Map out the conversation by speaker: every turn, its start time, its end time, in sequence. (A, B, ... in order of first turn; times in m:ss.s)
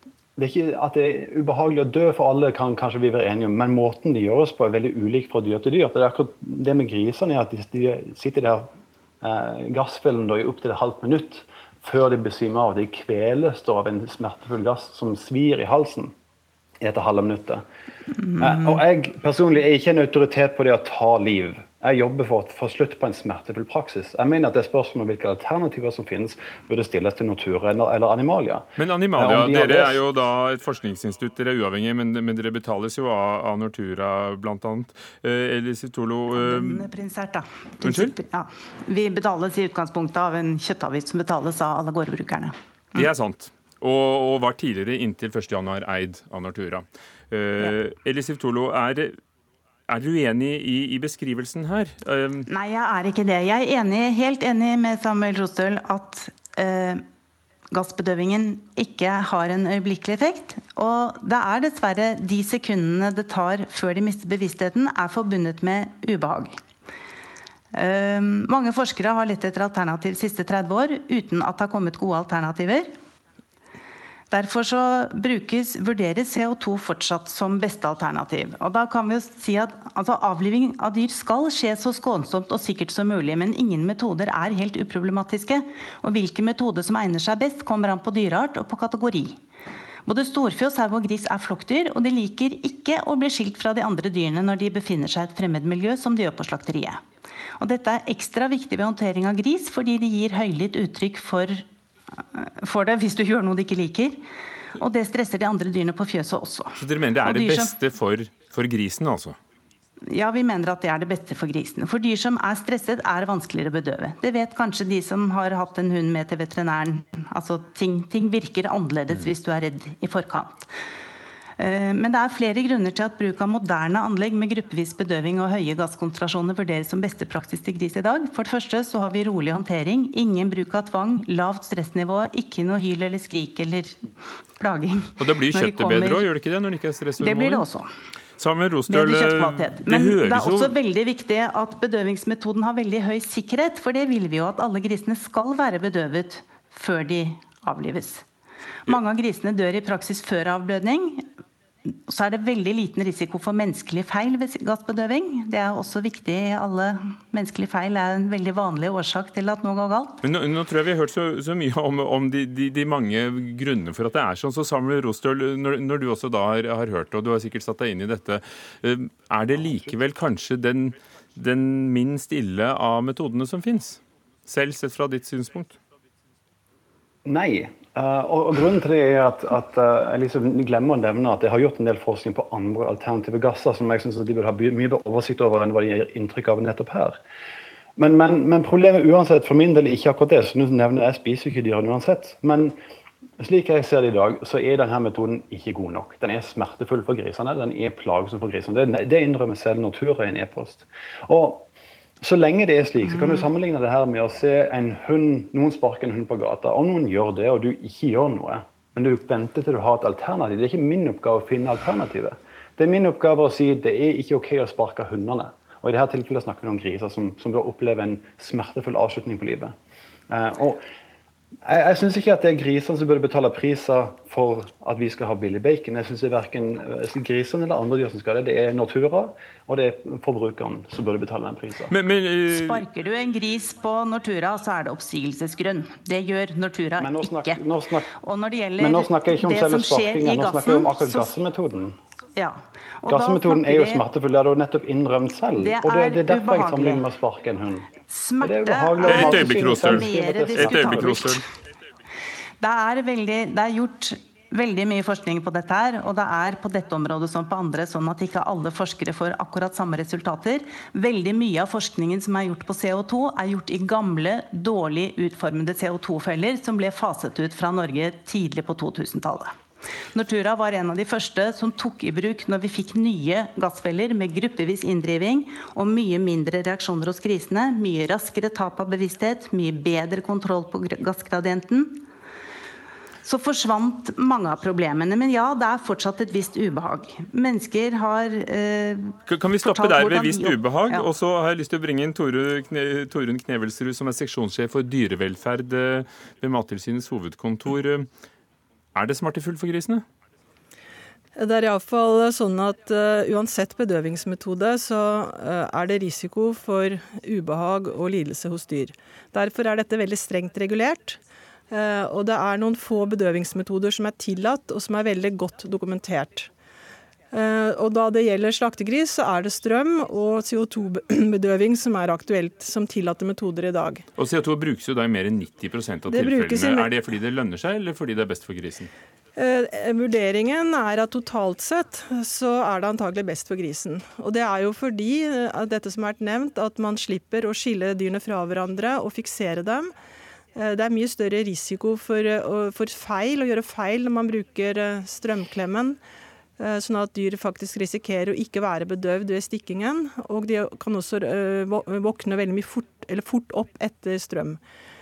0:00.4-0:08.7 A
0:09.2-0:16.1 A
0:16.8-0:17.6 A
0:18.3-0:18.8 B
0:18.4-0:30.0 A
0:28.8-0:36.9 C
0:36.3-0:43.1 B
0:37.8-0:38.2 C
0:43.0-0:49.2 C
0:49.9-0:52.5 C
0:52.5-0:57.0 B
0:57.7-1:06.6 B
1:07.7-1:12.9 B
1:14.3-1:29.4 B
1:30.1-1:37.0 B
1:37.6-1:41.6 B
1:42.4-1:44.2 B
1:44.8-1:47.8 B
1:46.8-1:49.4 C
1:50.1-2:00.7 B
2:01.6-2:14.1 B
2:14.6-2:16.3 B
2:15.2-2:17.6 C
2:17.2-2:17.9 B
2:18.4-2:20.8 C
2:18.9-2:28.2 B
2:28.9-2:31.3 B
2:31.9-2:40.2 B
2:40.2-2:55.8 C
2:49.6-2:49.9 A
2:57.2-3:07.2 A
3:08.0-3:12.8 A
3:13.4-3:21.7 A
3:22.2-3:39.8 A
3:23.1-3:23.5 B
3:40.3-3:40.9 A
3:41.7-3:51.9 A
3:51.9-3:52.8 C
3:52.5-4:01.4 B
3:57.0-3:58.1 A
3:58.8-4:02.0 A
4:02.3-4:04.1 B
4:03.1-4:11.4 A
4:05.6-4:07.1 B
4:07.9-4:11.5 B
4:09.0-4:11.4 C
4:12.6-4:29.6 B
4:30.1-4:42.1 B
4:43.2-4:51.1 B
4:49.3-4:58.1 C
4:59.0-5:00.0 C
5:01.4-5:16.5 D
5:17.3-5:24.1 D
5:24.2-5:28.9 C
5:26.1-5:26.9 D
5:29.4-5:39.9 D
5:40.6-5:46.0 D
5:46.6-5:54.6 D